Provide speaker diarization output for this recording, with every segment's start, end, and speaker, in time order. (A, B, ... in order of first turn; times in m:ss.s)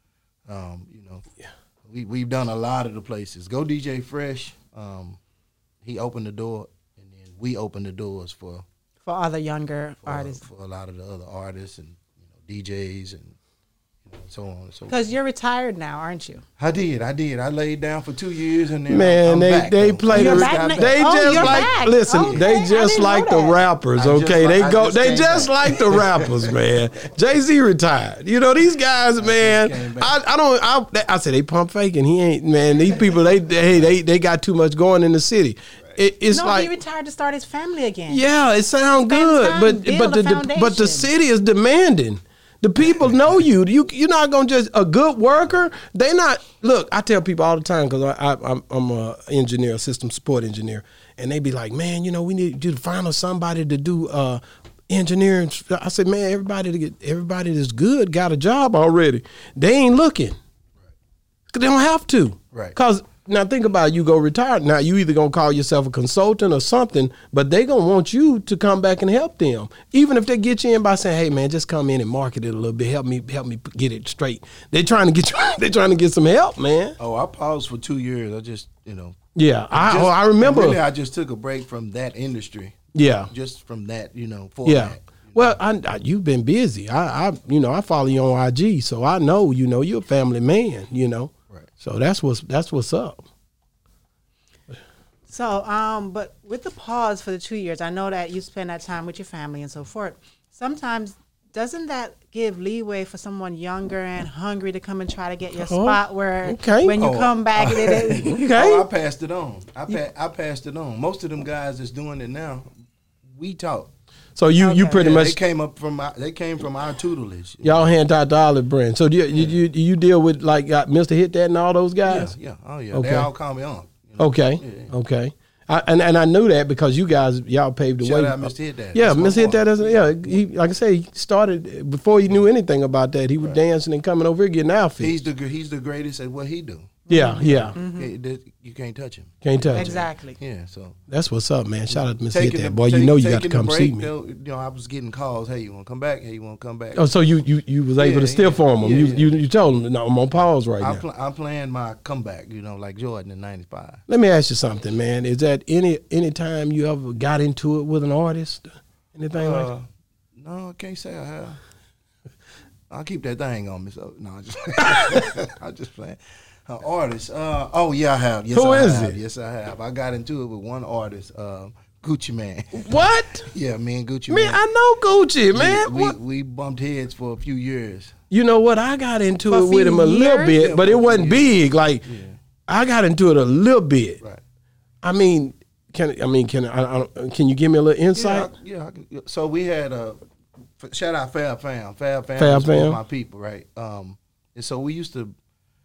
0:00.5-0:01.2 A
0:01.8-0:05.2 A
0:05.8-0:08.6 A
0:09.0-0:10.4 B
0:10.0-0:13.4 A
0:14.0-0:15.0 A
0:14.9-0:16.4 B
0:16.6-0:22.5 A
0:18.9-0:36.7 C
0:20.1-0:23.6 B
0:24.0-0:26.5 A
0:29.2-0:30.1 A
0:36.3-0:38.2 B
0:38.1-1:00.4 C
0:39.1-0:41.1 B
1:01.5-1:17.0 C
1:02.5-1:02.8 A
1:17.0-1:19.2 A
1:19.3-1:20.8 C
1:19.7-1:25.6 A
1:22.9-1:23.3 C
1:24.6-1:33.2 C
1:35.3-1:48.7 B
1:45.6-1:47.0 C
1:47.0-1:52.7 A
1:48.3-1:48.8 C
1:53.3-1:53.9 A
1:54.4-1:55.4 C
1:54.6-1:55.0 B
1:54.7-1:57.9 A
1:57.6-2:02.3 C
1:59.3-1:59.6 A
2:02.0-2:04.9 A
2:02.9-2:03.3 C
2:04.2-2:15.2 C
2:08.0-2:10.4 A
2:15.0-2:21.0 A
2:17.1-2:18.1 B
2:17.1-2:17.7 C
2:19.4-2:20.0 C
2:19.7-2:20.4 B
2:21.1-2:24.1 C
2:21.9-2:27.1 A
2:26.9-2:31.0 C
2:28.0-2:29.3 A
2:30.8-2:34.0 A
2:34.1-2:39.7 C
2:39.3-2:39.8 A
2:40.4-2:41.6 A
2:42.9-2:54.6 A
2:44.9-2:45.2 C
2:48.5-2:49.2 C
2:52.7-2:53.5 C
2:54.3-2:56.2 C
2:55.5-2:58.2 A
2:58.3-3:02.0 C
2:59.5-3:00.6 B
3:00.5-3:02.4 A
3:02.7-3:04.2 C
3:05.0-3:08.5 C
3:08.1-3:10.2 A
3:10.8-3:15.3 A
3:12.4-3:13.0 C